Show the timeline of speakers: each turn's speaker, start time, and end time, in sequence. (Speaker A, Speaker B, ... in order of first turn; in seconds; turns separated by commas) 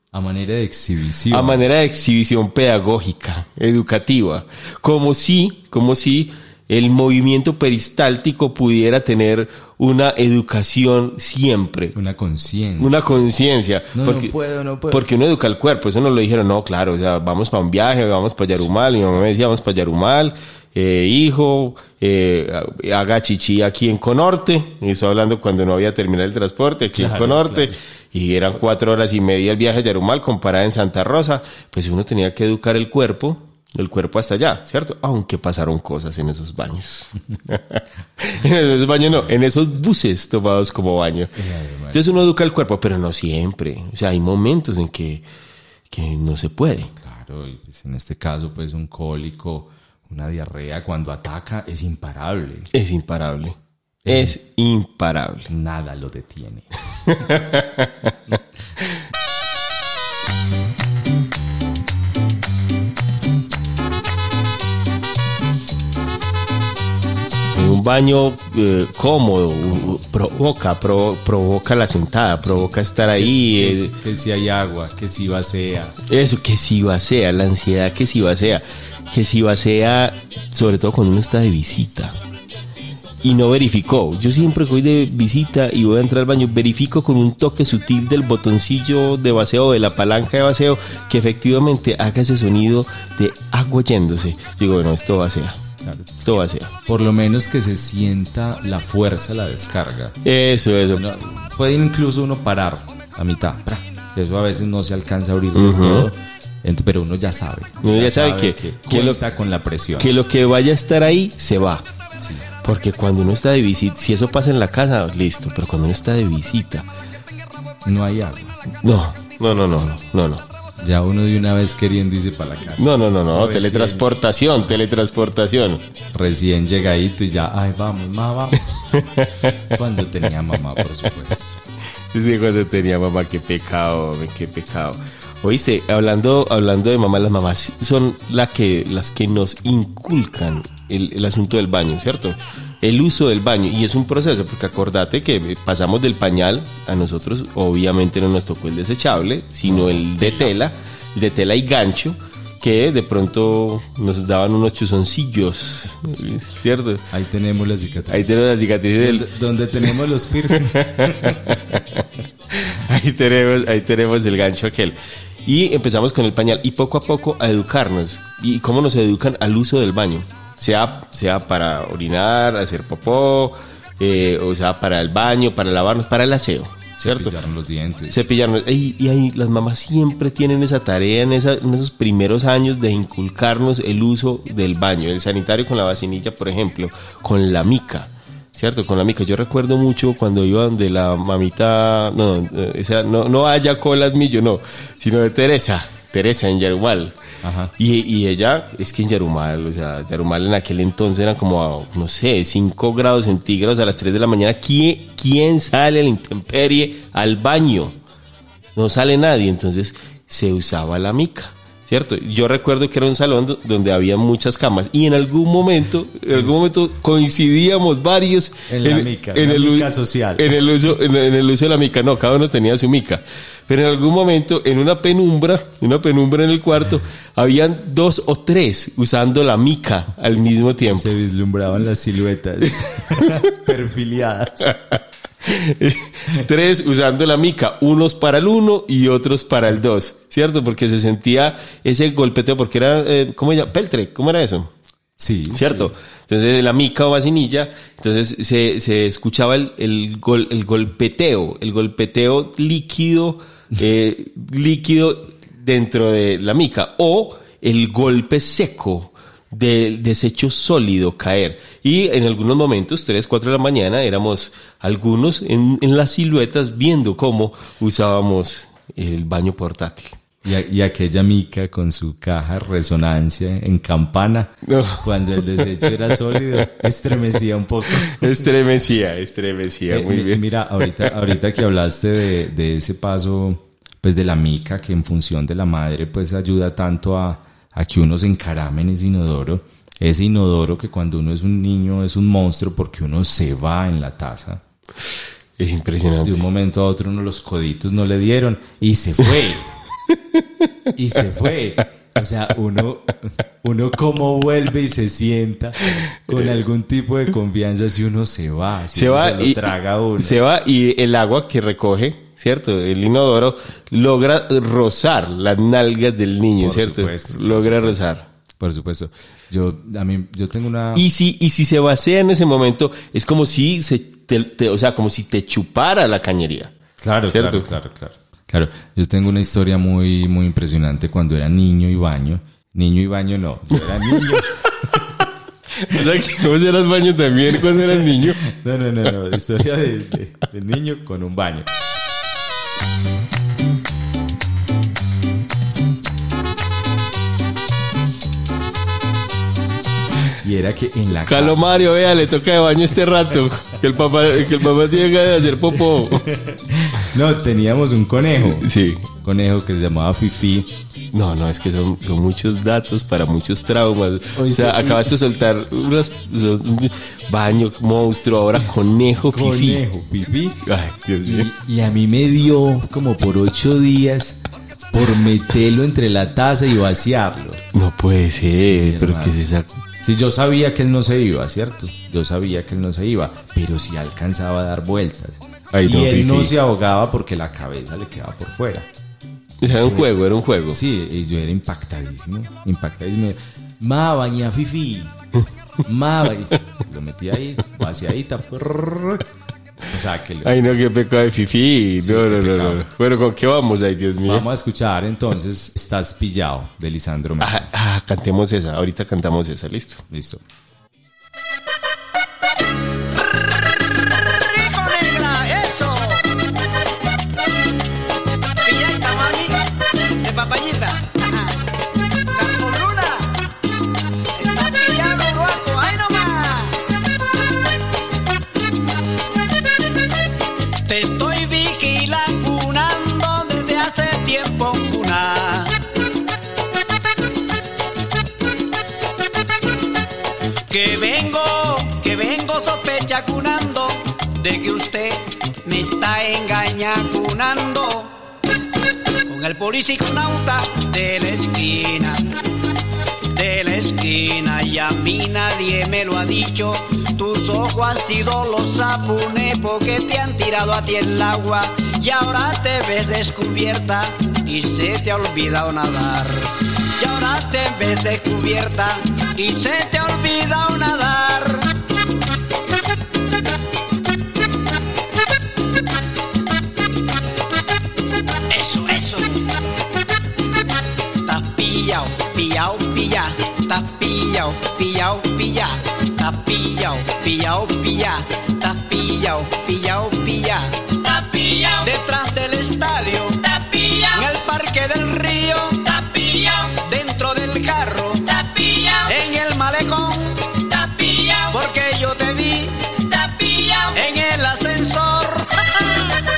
Speaker A: 0.1-1.6, Speaker B: 1.3-11.9, Speaker A: 11.9-13.3, Speaker B: 12.8-14.3, Speaker A: 13.9-15.1, Speaker B: 14.9-41.3, Speaker A: 26.9-27.7, Speaker A: 41.4-42.1, Speaker B: 41.9-45.2, Speaker B: 45.9-46.9, Speaker A: 47.0-52.7, Speaker B: 52.7-53.6, Speaker A: 54.0-54.4, Speaker B: 54.1-55.5, Speaker A: 55.5-56.7, Speaker B: 57.1-58.1, Speaker B: 67.5-73.9, Speaker A: 72.5-76.0, Speaker B: 76.1-82.2, Speaker B: 83.2-95.6, Speaker B: 96.2-96.7, Speaker A: 96.9-100.2, Speaker B: 100.2-101.0, Speaker A: 100.9-110.1, Speaker B: 105.5-106.1, Speaker B: 107.8-109.2, Speaker B: 110.0-111.8, Speaker A: 112.2-112.5, Speaker B: 112.6-116.9, Speaker A: 117.8-118.6, Speaker B: 118.8-120.4, Speaker A: 120.8-124.1, Speaker B: 122.8-125.8, Speaker A: 126.1-129.1, Speaker B: 129.2-129.5, Speaker A: 129.7-131.6, Speaker B: 132.1-157.1, Speaker A: 149.7-150.3, Speaker A: 157.1-158.4, Speaker B: 158.1-159.3, Speaker A: 159.0-161.6, Speaker B: 160.7-161.8, Speaker B: 162.5-177.4, Speaker A: 177.0-178.2, Speaker B: 178.1-197.2, Speaker A: 197.4-197.7, Speaker B: 197.8-208.0, Speaker B: 208.8-231.1, Speaker A: 218.7-220.6, Speaker A: 230.9-234.8, Speaker B: 235.4-244.7, Speaker A: 245.2-245.9, Speaker B: 245.5-270.2, Speaker A: 270.4-278.3, Speaker B: 274.6-275.1, Speaker B: 277.9-280.4, Speaker A: 279.9-294.6, Speaker B: 295.6-296.4, Speaker A: 296.2-299.7, Speaker A: 300.9-310.4, Speaker B: 308.9-318.3, Speaker A: 316.6-318.1, Speaker A: 318.6-321.1, Speaker B: 320.9-326.7, Speaker A: 327.0-335.1, Speaker B: 327.3-327.7, Speaker B: 334.2-334.4, Speaker B: 335.8-338.4, Speaker A: 338.4-341.7, Speaker A: 350.4-351.8, Speaker B: 351.3-356.3, Speaker A: 356.3-360.7, Speaker B: 358.4-359.1, Speaker B: 361.1-369.8, Speaker A: 364.4-365.1, Speaker A: 369.2-370.6, Speaker B: 370.6-371.5, Speaker A: 371.2-374.4, Speaker A: 374.9-377.6, Speaker B: 377.7-379.7, Speaker A: 378.5-379.4, Speaker A: 380.0-388.9, Speaker B: 385.7-386.5, Speaker B: 389.6-390.8, Speaker A: 389.7-390.1, Speaker A: 390.7-395.1, Speaker A: 395.9-399.2, Speaker A: 399.9-400.5, Speaker B: 400.4-404.5, Speaker A: 402.0-402.9, Speaker A: 404.3-407.7, Speaker B: 407.4-410.0, Speaker A: 410.1-410.4, Speaker C: 413.8-416.3, Speaker C: 418.6-419.7, Speaker C: 420.2-421.6, Speaker C: 422.3-423.4, Speaker C: 424.3-426.9, Speaker C: 430.9-435.8, Speaker C: 440.7-448.2, Speaker C: 449.3-452.2, Speaker C: 453.3-471.7, Speaker C: 478.5-479.5, Speaker C: 481.2-506.2